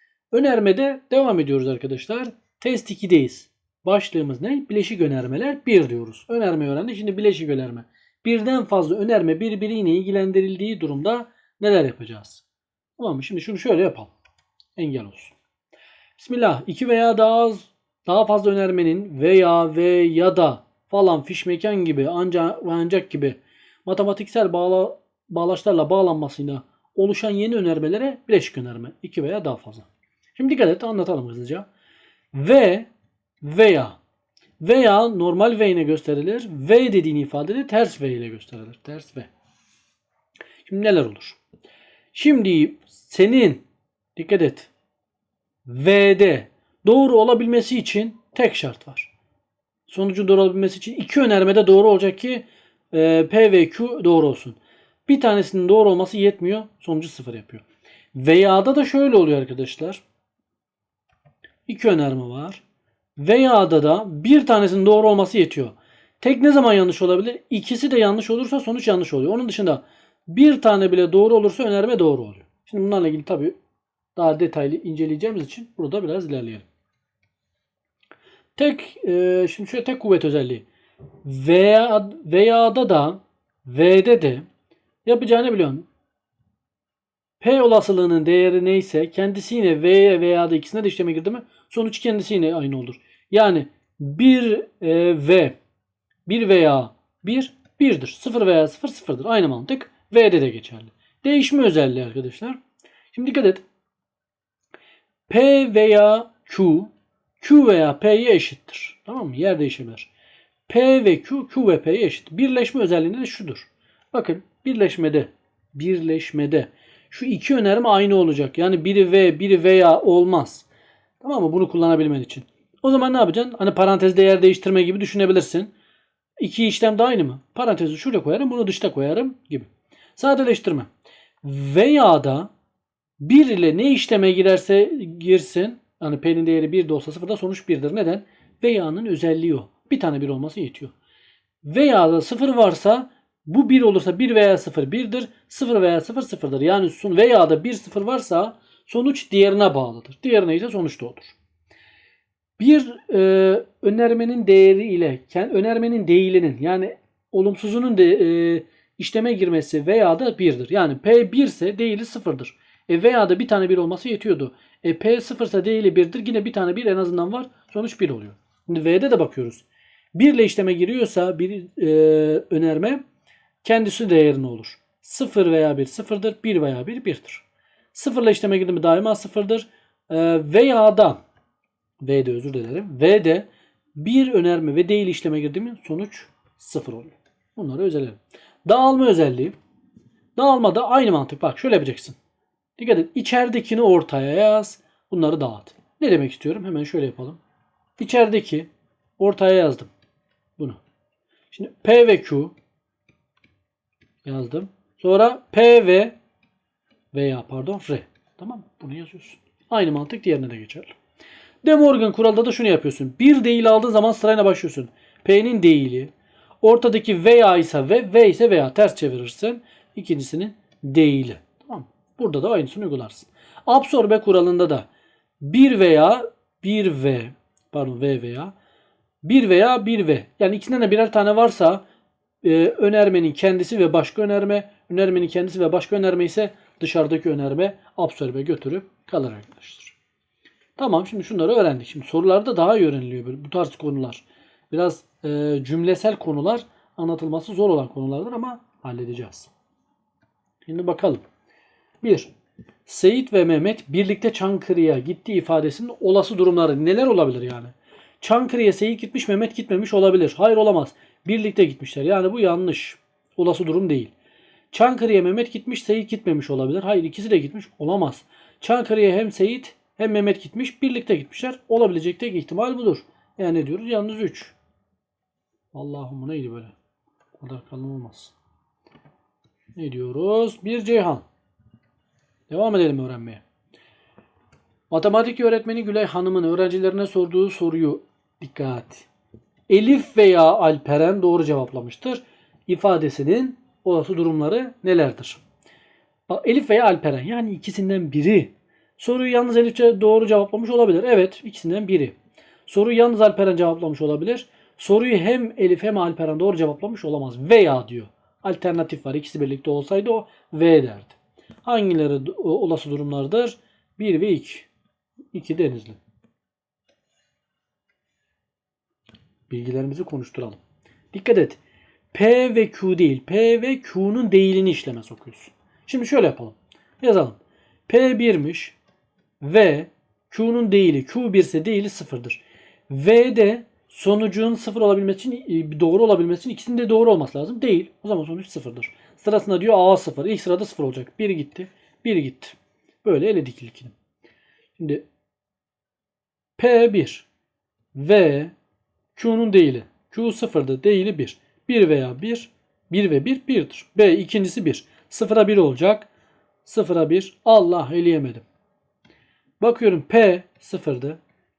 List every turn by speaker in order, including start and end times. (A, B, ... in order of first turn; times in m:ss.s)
0:00.3-0:12.4 A
0:13.0-0:14.1 A
0:14.8-0:15.4 A
0:16.2-0:31.7 A
0:32.3-0:32.9 A
0:33.4-0:34.0 A
0:34.6-0:39.3 A
0:40.6-0:41.4 A
0:42.1-0:44.7 A
0:45.7-0:49.1 A
0:49.9-1:00.0 A
1:01.7-1:02.6 A
1:03.2-1:13.6 A
1:14.2-1:16.7 A
1:18.6-1:20.7 A
1:21.2-1:24.5 A
1:25.0-1:25.9 A
1:27.4-1:35.6 A
1:36.3-1:42.6 A
1:43.1-1:43.6 A
1:45.3-1:50.1 A
1:50.7-2:00.7 A
2:01.2-2:05.7 A
2:06.4-2:10.9 A
2:11.4-2:12.5 A
2:13.2-2:20.9 A
2:21.6-2:31.4 A
2:32.6-2:53.0 A
2:53.6-3:01.2 A
3:02.0-3:09.6 A
3:10.4-3:12.2 A
3:12.8-3:17.4 A
3:18.0-3:19.9 A
3:21.5-3:22.6 A
3:24.2-3:26.2 A
3:27.1-3:30.9 A
3:31.6-3:44.9 A
3:45.4-3:48.5 A
3:49.2-3:51.8 A
3:52.4-4:00.0 A
4:00.8-4:09.5 A
4:10.6-4:11.2 A
4:12.0-4:12.3 A
4:12.9-4:24.1 A
4:24.7-4:34.6 A
4:35.7-4:36.7 A
4:37.4-4:38.4 A
4:39.8-4:41.3 A
4:42.5-4:43.4 A
4:44.9-4:49.1 A
4:49.7-4:55.4 A
4:56.3-5:02.2 A
5:02.7-5:14.7 A
5:15.3-5:16.0 A
5:19.5-5:20.6 A
5:21.1-5:21.6 A
5:22.1-5:28.8 A
5:29.4-5:44.0 A
5:44.8-5:45.0 A
5:46.6-5:47.3 A
5:48.0-5:48.5 A
5:49.2-5:56.1 A
5:56.6-5:58.4 A
5:59.6-6:01.2 A